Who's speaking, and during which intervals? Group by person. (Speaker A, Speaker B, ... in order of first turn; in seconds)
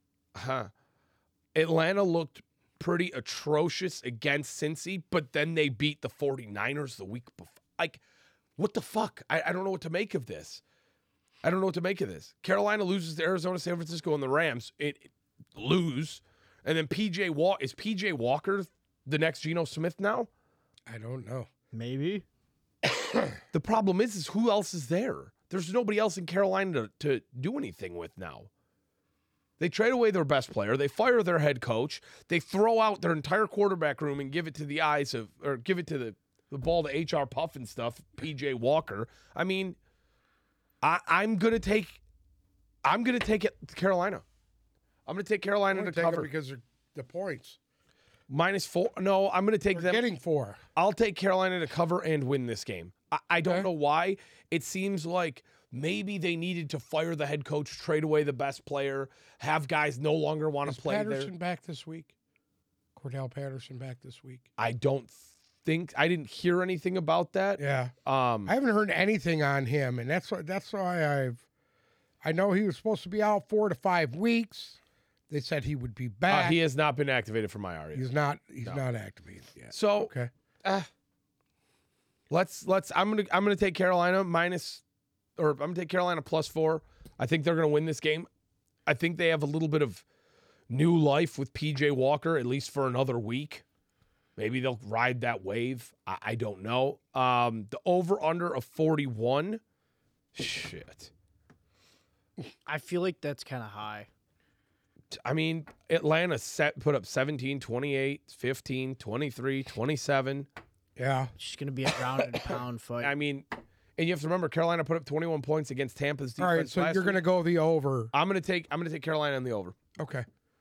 Speaker A: 0.3-0.7, 1.5-8.0, 8.6-10.6, 11.4-20.3, 23.5-28.5, 29.6-39.8, 40.8-42.0, 42.8-44.2, 45.1-46.3, 48.3-50.0, 50.8-61.3, 64.6-68.5, 76.3-78.1, 79.7-80.1, 80.6-80.9, 82.3-84.8, 85.4-88.3, 88.9-90.0, 90.7-93.6, 94.4-99.6, 100.3-101.1, 105.1-110.5, 113.0-117.2, 118.1-119.8
Speaker B: 20.9-21.5, 45.7-47.6, 49.7-50.6, 60.7-62.1, 63.0-64.5, 67.6-67.9, 68.5-71.4, 72.2-74.8, 75.3-76.6, 77.9-80.3, 111.0-111.3, 116.4-118.1, 120.0-120.3
Speaker C: 21.7-22.2, 102.7-104.1, 111.4-113.1